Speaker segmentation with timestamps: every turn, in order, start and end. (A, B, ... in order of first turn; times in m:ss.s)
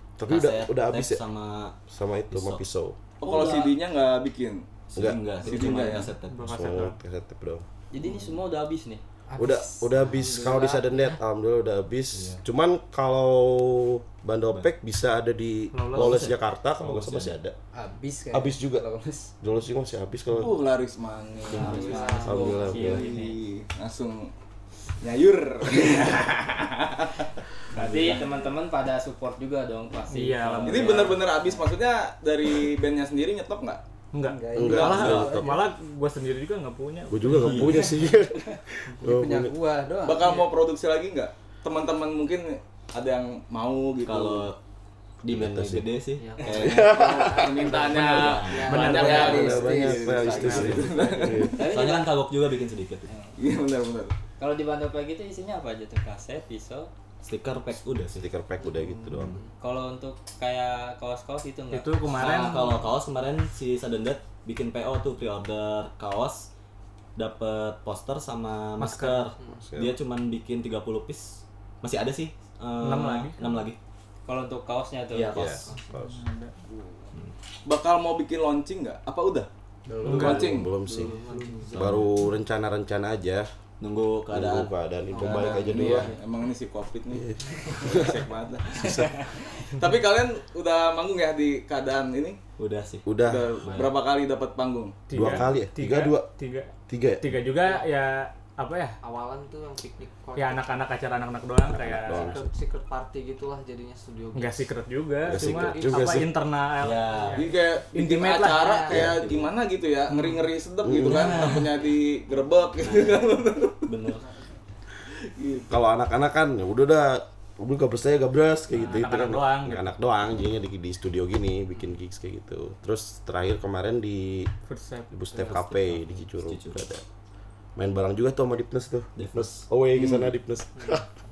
0:00.2-0:01.2 A
0:00.2-0:01.8 B
0:01.9-0:03.0 A
0:02.3-0:02.6 B
0:03.2-0:04.7 C
0:03.2-0:03.8 D
0:04.9-0:06.7 B
0:05.0-0:05.2 A
0:05.4-0:06.1 C
0:06.3-0:07.0 E
0:06.4-0:07.6 A
0:07.9-0:09.0 D
0:09.3-0:10.9 F
0:09.4-0:17.6 A
0:09.4-0:10.8 G
0:12.1-0:12.4 B
0:15.7-0:16.2 E
0:15.9-0:17.3 B
0:17.7-0:19.3 F
0:18.3-0:18.8 A
0:19.4-0:20.6 A
0:20.4-0:24.3 C
0:21.5-0:23.4 D
0:21.6-0:22.8 G
0:22.2-0:23.0 A
0:25.0-0:27.2 C
0:27.7-0:28.3 B
0:27.7-0:31.3 D
0:30.1-0:31.1 E
0:30.7-0:33.8 C
0:34.1-0:38.0 E
0:34.2-0:35.6 F
0:34.6-0:35.6 A
0:34.7-0:35.1 C
0:37.1-0:39.6 A
0:37.3-0:37.9 B
0:39.0-0:40.3 F
0:40.0-0:44.5 C
0:44.0-0:44.6 B
0:45.2-0:45.9 A
0:45.2-0:47.4 B
0:46.2-0:49.6 G
0:46.5-0:47.5 A
0:46.7-0:51.5 C
0:47.8-0:49.5 E
0:48.2-0:49.3 B
0:48.7-0:50.6 F
0:49.1-0:51.6 A
0:50.3-0:50.8 E
0:50.4-0:53.1 B
0:51.5-0:52.2 D
0:53.1-0:53.4 D
0:53.4-0:54.1 C
0:54.4-0:56.9 D
0:57.2-0:58.3 B
0:58.2-0:59.4 A
0:58.6-0:59.5 G
0:59.6-1:02.5 D
1:01.7-1:02.8 E
1:02.2-1:06.5 B
1:07.2-1:13.8 B
1:08.8-1:09.3 E
1:09.6-1:10.0 A
1:12.8-1:13.6 E
1:14.3-1:15.4 D
1:15.1-1:15.8 B
1:15.4-1:16.1 A
1:15.9-1:16.5 E
1:17.7-1:19.5 C
1:19.9-1:21.8 F
1:20.1-1:20.5 E
1:20.1-1:21.1 A
1:20.1-1:20.7 C
1:20.9-1:22.0 G
1:21.8-1:22.1 B
1:21.8-1:23.5 A
1:23.8-1:24.7 B
1:24.3-1:26.1 A
1:25.1-1:26.2 G
1:25.2-1:32.4 C
1:27.1-1:28.2 A
1:28.8-1:29.1 A
1:32.6-1:33.1 B
1:33.0-1:33.5 A
1:33.2-1:35.0 C
1:33.6-1:33.9 G
1:35.1-1:39.0 E
1:35.1-1:36.3 A
1:36.9-1:37.3 A
1:37.6-1:37.9 G
1:39.0-1:40.7 G
1:40.4-1:42.4 E
1:41.6-1:42.4 A
1:42.0-1:46.3 G
1:44.3-1:48.9 E
1:45.3-1:46.3 A
1:46.8-1:47.5 B
1:47.4-1:53.9 C
1:48.6-1:48.9 G
1:48.9-1:49.4 A
1:50.8-1:51.3 A
1:51.1-1:51.7 B
1:52.8-1:53.3 B
1:53.8-1:54.2 B
1:54.1-1:54.4 G
1:55.3-1:55.8 C
1:55.7-2:04.5 A
1:58.8-1:59.9 E
2:04.7-2:05.3 E
2:05.1-2:07.0 A
2:05.4-2:06.8 B
2:07.8-2:11.1 A
2:09.2-2:10.3 B
2:10.8-2:11.0 G